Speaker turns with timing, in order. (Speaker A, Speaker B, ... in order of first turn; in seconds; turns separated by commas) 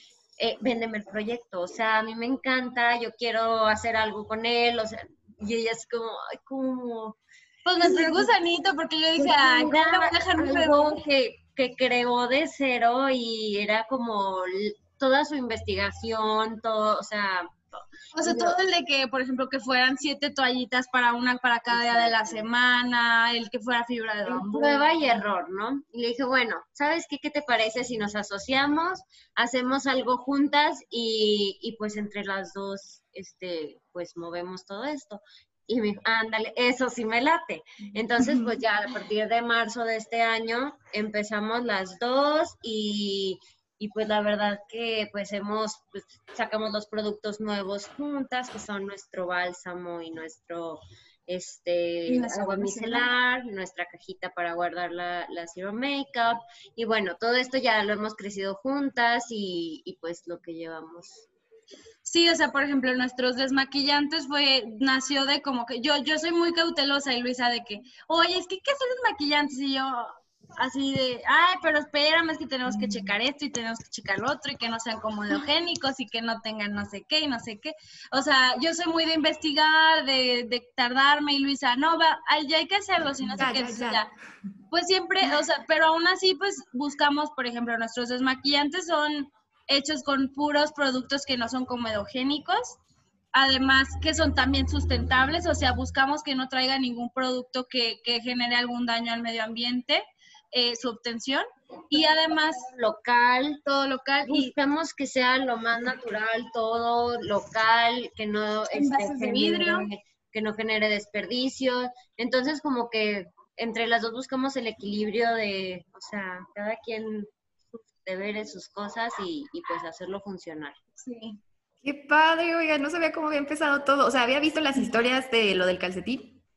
Speaker A: 0.4-7.2, Speaker B: 7.6-11.0, Speaker A: 7.8-8.3, Speaker A: 9.2-17.6, Speaker B: 18.1-24.9, Speaker A: 18.2-18.6, Speaker A: 21.7-22.4, Speaker A: 24.2-61.2, Speaker C: 38.2-38.5, Speaker B: 52.1-53.1, Speaker B: 62.0-84.1, Speaker C: 83.3-84.1, Speaker B: 84.7-92.8, Speaker B: 93.3-102.7, Speaker A: 102.6-103.6, Speaker B: 103.6-104.5, Speaker A: 104.3-120.8, Speaker B: 108.7-109.9, Speaker B: 121.0-121.4, Speaker C: 121.8-126.4